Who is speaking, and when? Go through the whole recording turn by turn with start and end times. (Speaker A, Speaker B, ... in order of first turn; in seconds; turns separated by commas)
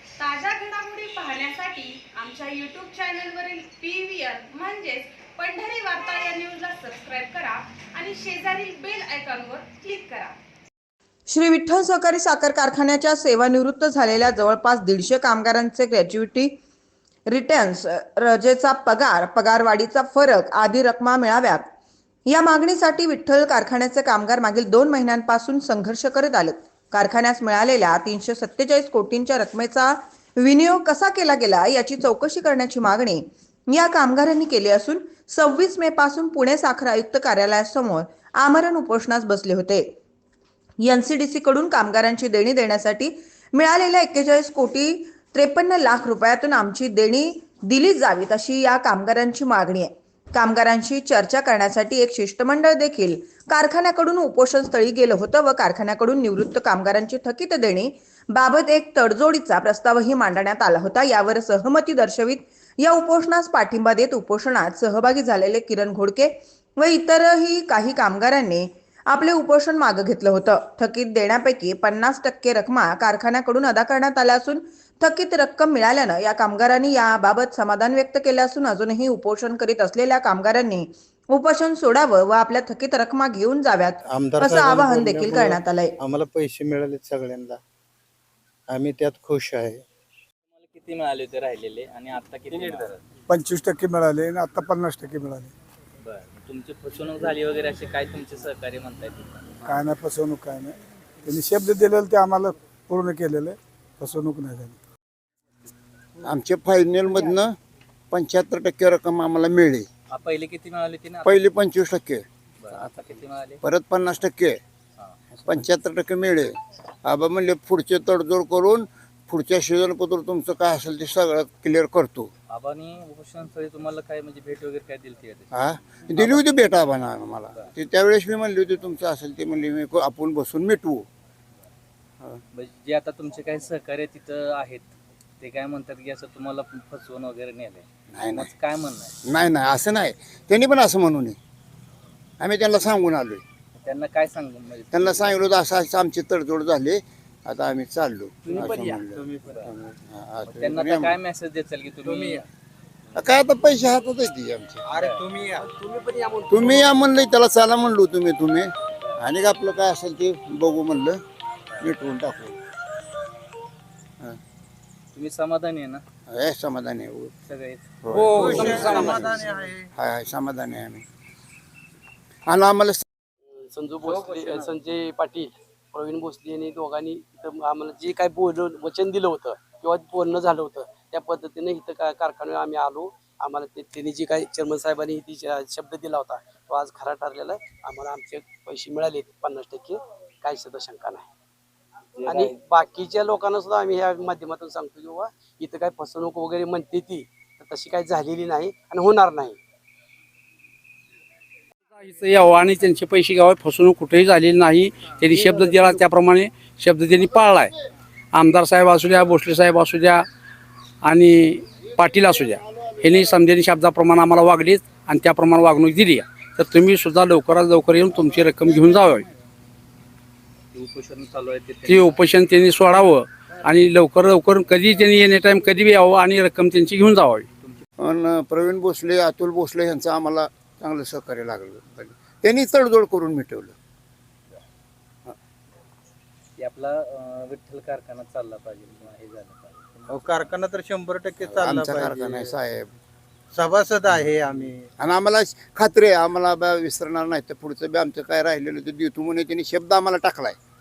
Speaker A: 0.2-10.3, Speaker B: 11.3-16.6, Speaker B: 17.3-21.7, Speaker B: 22.3-39.9, Speaker B: 40.8-86.0, Speaker C: 84.1-87.6, Speaker C: 88.7-89.8, Speaker D: 90.5-93.0, Speaker E: 93.3-95.5, Speaker D: 96.0-99.5, Speaker E: 99.6-104.8, Speaker F: 106.2-107.5, Speaker F: 108.1-109.9, Speaker D: 110.1-111.5, Speaker F: 111.2-112.2, Speaker D: 112.6-113.6, Speaker F: 113.6-114.6, Speaker D: 115.0-115.5, Speaker F: 115.4-122.3, Speaker D: 122.5-126.5, Speaker F: 125.5-131.1, Speaker D: 132.5-139.1, Speaker F: 138.1-138.5, Speaker F: 139.2-141.4, Speaker F: 142.4-143.4, Speaker D: 143.8-145.4, Speaker F: 144.9-151.2, Speaker D: 148.5-148.9, Speaker C: 148.5-149.2, Speaker D: 149.4-149.7, Speaker D: 150.4-152.4, Speaker G: 152.0-152.4, Speaker F: 153.1-154.8, Speaker G: 154.9-157.0, Speaker D: 154.9-155.2, Speaker C: 155.2-155.7, Speaker F: 156.5-161.2, Speaker F: 161.8-162.6, Speaker D: 165.1-166.0, Speaker F: 166.3-167.3, Speaker D: 167.4-169.3, Speaker F: 168.0-171.0, Speaker C: 168.3-169.8, Speaker F: 172.5-173.0, Speaker G: 173.5-191.3, Speaker G: 192.2-199.6, Speaker H: 202.0-207.7, Speaker H: 208.3-210.2, Speaker H: 211.0-219.2, Speaker D: 220.7-222.2, Speaker H: 221.9-227.5, Speaker F: 228.0-233.7, Speaker D: 236.6-240.5, Speaker C: 240.1-242.5, Speaker F: 241.4-242.9, Speaker C: 243.5-244.9, Speaker F: 245.0-250.6